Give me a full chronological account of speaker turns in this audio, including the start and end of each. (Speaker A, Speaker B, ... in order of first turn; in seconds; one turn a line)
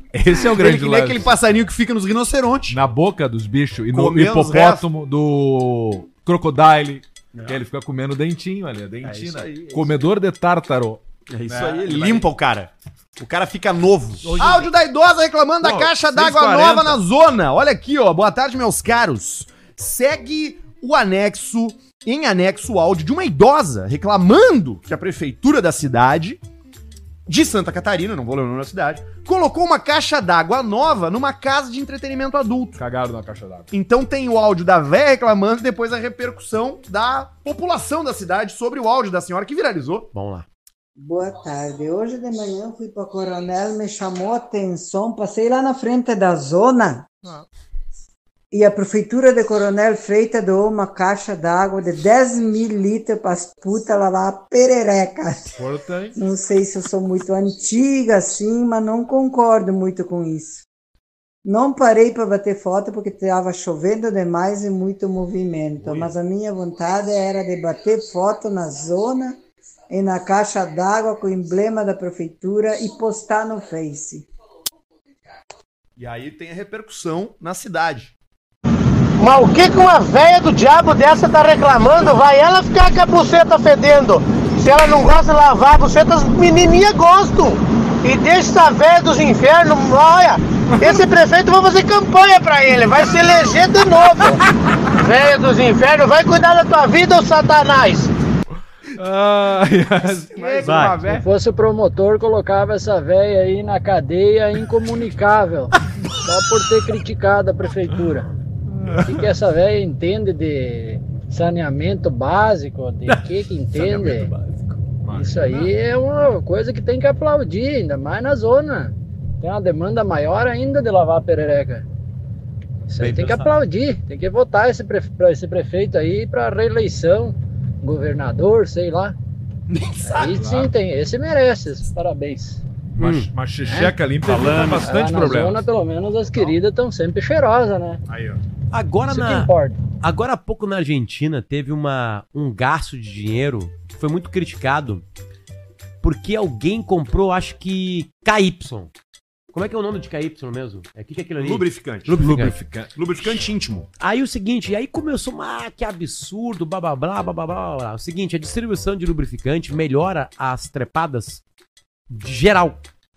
Speaker A: 0.1-1.3
Speaker B: 0.6-2.8
Speaker A: 2.7-12.2
Speaker B: 3.9-4.9
Speaker B: 9.0-9.8
Speaker B: 11.3-26.4
Speaker A: 14.2-14.7
Speaker A: 15.6-17.0
Speaker B: 27.3-32.8
Speaker A: 32.8-33.7
Speaker B: 33.7-40.1
Speaker C: 40.1-40.5
Speaker D: 41.0-47.1
Speaker D: 48.5-55.6
Speaker A: 55.6-56.2
Speaker D: 56.1-60.6
Speaker D: 61.5-69.4
Speaker D: 69.9-74.2
Speaker B: 76.0-78.1
Speaker E: 79.2-94.4
Speaker E: 95.0-98.1
Speaker A: 99.0-101.2
Speaker B: 100.2-101.0
Speaker C: 100.6-101.0
Speaker F: 101.0-108.3
Speaker F: 109.0-114.3
Speaker C: 113.1-114.8
Speaker A: 115.0-115.7
Speaker F: 115.1-121.8
Speaker F: 122.9-129.1
Speaker C: 123.0-123.5
Speaker B: 129.7-130.3
Speaker F: 130.0-132.6
Speaker A: 130.1-130.7
Speaker A: 132.9-135.6
Speaker C: 133.0-133.3
Speaker F: 133.6-133.9
Speaker F: 134.6-138.0
Speaker C: 138.7-145.1
Speaker F: 139.1-139.8
Speaker C: 146.0-148.9
Speaker C: 149.5-152.6
Speaker B: 151.4-152.3
Speaker A: 152.1-152.9
Speaker B: 152.9-153.9
Speaker C: 154.0-161.4
Speaker C: 162.1-162.8